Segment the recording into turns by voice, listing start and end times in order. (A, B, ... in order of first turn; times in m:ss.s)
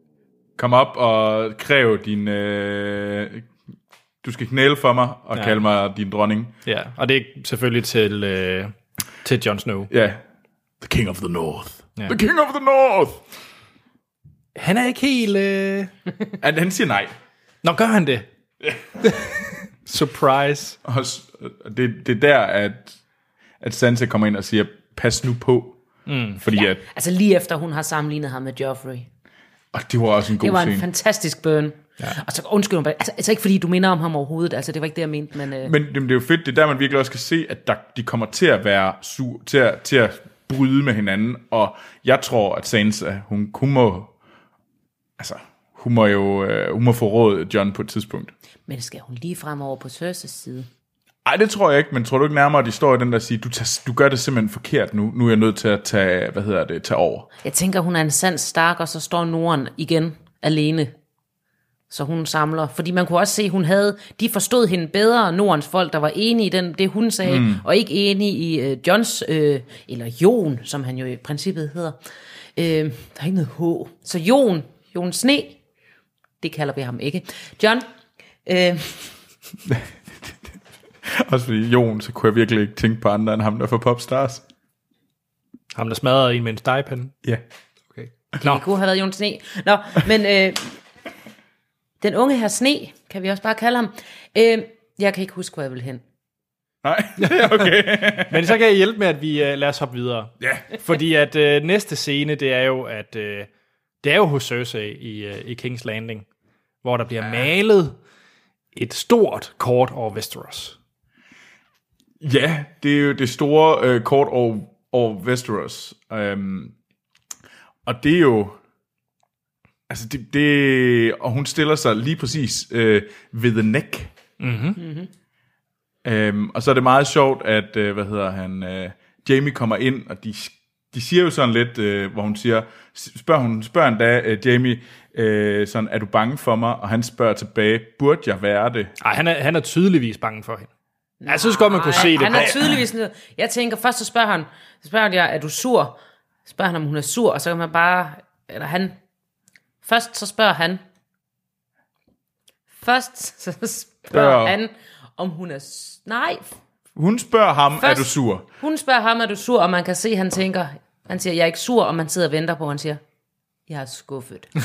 0:00.6-0:03.5 A
0:04.2-0:06.5 A
0:05.4-0:05.6 B
0:06.6-0:09.9 B
0:09.9-0:10.2 A
0:10.8-0:13.2 A
0:14.6-0:15.9 B
0:16.4-0:17.1 A
0:17.6-0:18.3 B
0:19.0-0:20.8 B
0:20.8-0:23.0 A
0:23.6-0:25.8 A
0:26.1-0:26.4 B
0:26.4-0:26.8 A
0:26.5-0:29.1 C
0:29.7-0:30.9 A
0:30.4-0:35.7 C
0:35.6-0:44.1 A
0:45.2-0:48.3 A
0:48.7-0:50.7 C
0:51.2-0:57.3 A
0:57.4-1:00.9 C
1:01.9-1:12.0 C
1:07.2-1:07.6 A
1:12.6-1:15.6 C
1:16.4-1:17.8 C
1:18.4-1:19.1 C
1:19.6-1:20.4 A
1:21.0-1:24.4 A
1:25.7-1:27.1 B
1:28.0-1:28.6 B
1:28.4-1:30.8 C
1:32.0-1:36.0 C
1:36.8-1:38.6 A
1:37.2-1:43.5 B
1:40.4-1:40.7 A
1:44.0-1:46.3 B
1:46.8-1:48.0 B
1:48.8-1:50.8 B
1:52.2-1:56.8 A
1:57.8-1:58.6 A
1:59.9-2:04.1 A
2:04.4-2:04.8 B
2:04.8-2:05.1 C
2:06.0-2:18.9 A
2:19.0-2:20.7 B
2:21.2-2:29.0 C
2:21.3-2:22.6 B
2:22.2-2:22.7 A
2:29.8-2:30.8 C
2:32.7-2:36.5 C
2:34.1-2:34.6 A
2:37.0-2:38.5 A
2:37.8-2:43.0 C
2:43.7-2:44.5 C